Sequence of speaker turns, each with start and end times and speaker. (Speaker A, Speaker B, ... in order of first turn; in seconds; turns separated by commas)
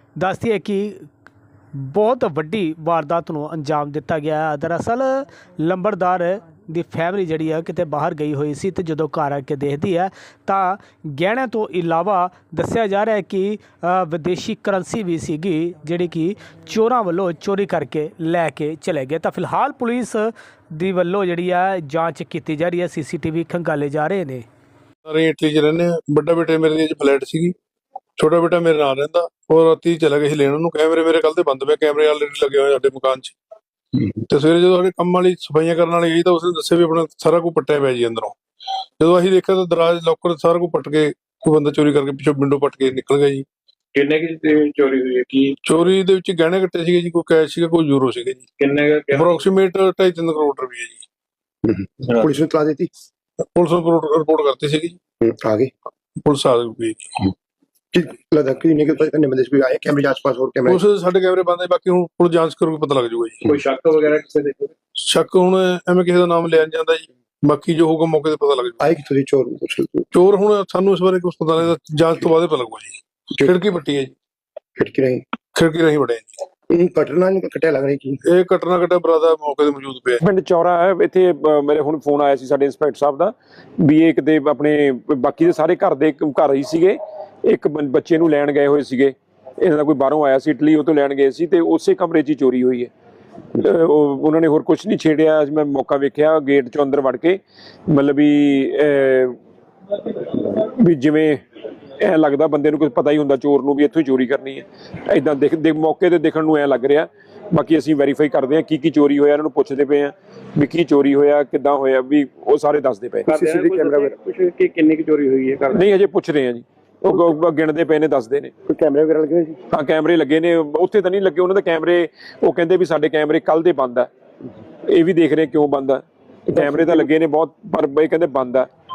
Speaker A: 0.2-1.1, Speaker A: 1.8-24.4, Speaker B: 25.1-27.6, Speaker B: 28.2-33.4, Speaker B: 34.2-38.4, Speaker B: 39.0-43.5, Speaker C: 44.0-45.6, Speaker B: 45.6-48.5, Speaker C: 48.6-49.4, Speaker B: 49.1-51.1, Speaker D: 51.6-52.9, Speaker B: 53.5-55.0, Speaker D: 55.2-55.7, Speaker B: 56.2-57.3, Speaker D: 57.9-60.8, Speaker B: 60.7-63.5, Speaker C: 63.5-64.7, Speaker B: 65.0-68.8, Speaker D: 68.8-70.1, Speaker B: 70.1-74.1, Speaker D: 74.8-75.2, Speaker B: 75.5-76.4, Speaker D: 76.7-78.2, Speaker B: 78.2-80.2, Speaker E: 80.2-92.9, Speaker E: 93.5-99.4, Speaker E: 100.0-101.4, Speaker E: 102.0-113.3, Speaker D: 113.3-114.2, Speaker C: 113.3-116.0, Speaker E: 115.7-118.5, Speaker D: 118.7-119.6, Speaker E: 119.7-124.1, Speaker E: 124.9-128.7, Speaker D: 126.6-127.1